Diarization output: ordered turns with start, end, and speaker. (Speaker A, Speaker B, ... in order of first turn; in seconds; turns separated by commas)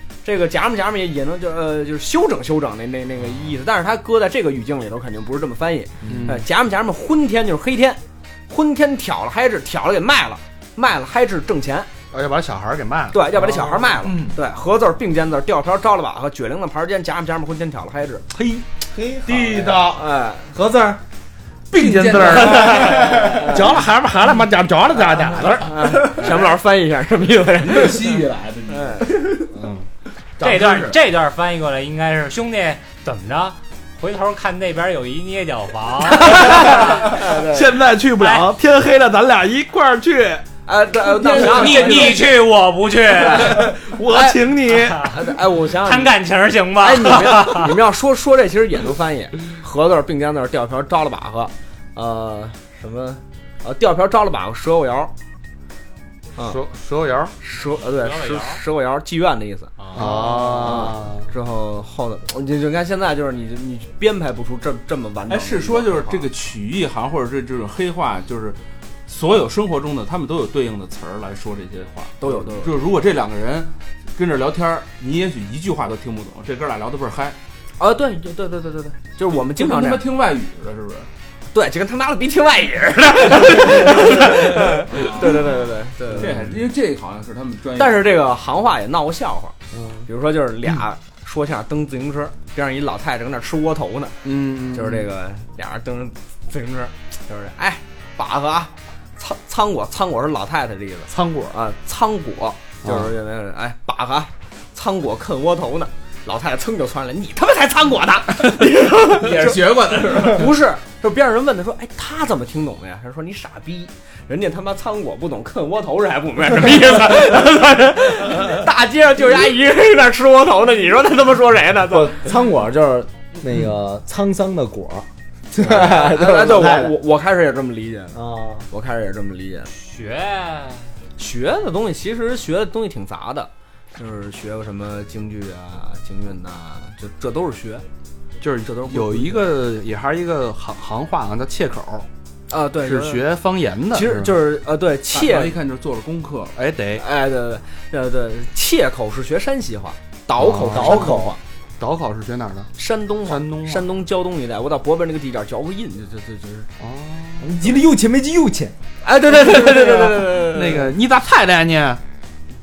Speaker A: 0.2-11.9, Speaker B: 6.0-6.4, Speaker B: 12.1-14.4, Speaker A: 13.1-18.2, Speaker B: 18.4-18.6, Speaker C: 18.8-19.9, Speaker B: 19.2-20.0, Speaker A: 19.9-20.5, Speaker C: 20.5-21.0, Speaker D: 21.7-23.1, Speaker B: 21.7-26.1, Speaker A: 22.4-23.6, Speaker A: 25.6-29.1, Speaker D: 27.6-29.7, Speaker D: 30.4-31.0, Speaker E: 30.4-37.2, Speaker B: 36.2-40.5, Speaker A: 36.4-37.7, Speaker E: 38.2-38.5, Speaker A: 40.6-42.2, Speaker D: 41.1-42.2, Speaker E: 41.3-43.7, Speaker A: 43.1-44.4, Speaker B: 43.4-45.0, Speaker E: 44.7-47.8, Speaker A: 45.0-46.1, Speaker A: 46.8-55.1, Speaker B: 56.4-57.3, Speaker A: 57.4-66.2, Speaker E: 57.8-58.6, Speaker E: 59.8-60.1, Speaker B: 59.9-61.3, Speaker D: 65.3-77.4, Speaker A: 72.2-72.8, Speaker A: 77.8-80.0, Speaker D: 79.3-81.1, Speaker A: 81.5-86.4, Speaker D: 84.9-88.2, Speaker A: 87.8-94.2, Speaker B: 94.2-95.1, Speaker A: 94.7-122.3, Speaker B: 101.1-101.5, Speaker B: 102.8-103.1, Speaker D: 109.1-110.6, Speaker C: 121.9-127.0, Speaker A: 125.6-129.7, Speaker C: 128.1-128.7, Speaker E: 129.7-130.9, Speaker A: 131.2-137.8, Speaker B: 138.4-142.1, Speaker A: 142.5-143.3, Speaker B: 142.8-144.3, Speaker A: 143.9-145.6, Speaker D: 145.1-146.5, Speaker B: 146.5-147.0, Speaker A: 147.0-151.4, Speaker B: 150.4-151.2, Speaker C: 150.7-151.3, Speaker B: 151.8-152.7, Speaker A: 152.8-156.7, Speaker B: 153.2-153.9, Speaker B: 156.8-157.7, Speaker C: 157.4-158.8, Speaker A: 159.0-160.9, Speaker B: 160.4-162.0